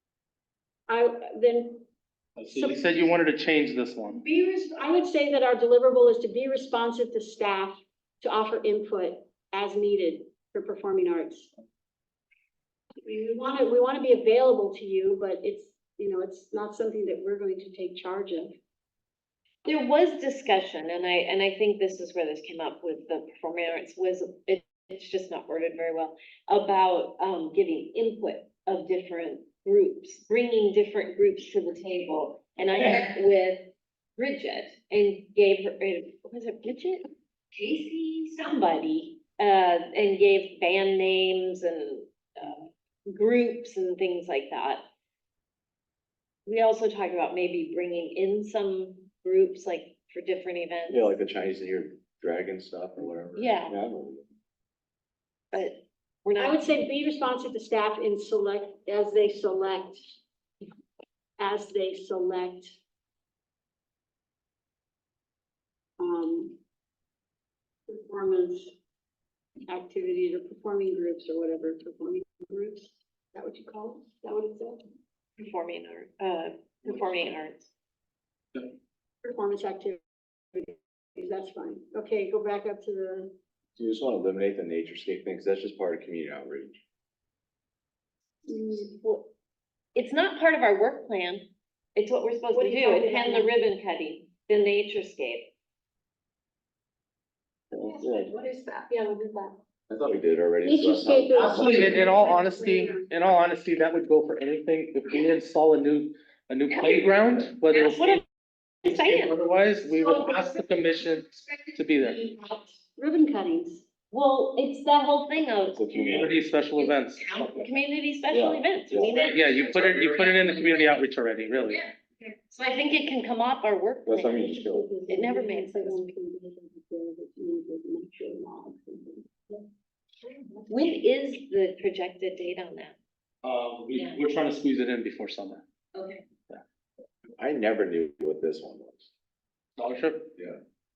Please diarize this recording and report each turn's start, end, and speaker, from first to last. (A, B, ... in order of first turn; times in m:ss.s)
0:00.9-0:01.8 A
0:02.4-0:04.2 B
0:02.5-0:03.1 A
0:04.1-0:11.5 A
0:13.0-0:18.6 A
0:19.6-0:44.8 C
0:46.5-0:51.2 C
0:50.9-0:54.2 D
0:53.4-0:53.8 C
0:55.5-0:56.6 C
0:56.4-1:00.2 A
1:01.4-1:02.8 A
1:06.0-1:06.6 A
1:07.9-1:08.8 A
1:09.7-1:14.8 A
1:15.4-1:17.7 C
1:19.2-1:20.0 A
1:20.5-1:23.3 A
1:23.8-1:26.8 D
1:28.5-1:28.9 A
1:28.5-1:29.3 C
1:30.0-1:35.5 C
1:32.5-1:33.5 A
1:38.0-1:39.5 A
1:39.9-1:42.1 D
1:40.6-1:43.1 A
1:41.4-1:48.2 B
1:47.7-1:48.2 C
1:48.8-1:49.4 C
1:48.9-1:52.2 B
1:52.2-1:53.8 A
1:54.1-1:55.8 C
1:55.7-1:56.3 D
1:55.9-1:57.7 B
1:57.4-1:59.4 C
1:58.3-1:59.3 D
1:59.1-2:01.8 B
2:01.7-2:04.4 C
2:04.1-2:04.9 D
2:04.2-2:09.6 A
2:05.1-2:06.1 C
2:10.7-2:13.0 C
2:13.4-2:15.6 B
2:13.9-2:14.2 C
2:16.0-2:16.2 C
2:17.4-2:19.1 D
2:19.8-2:20.3 B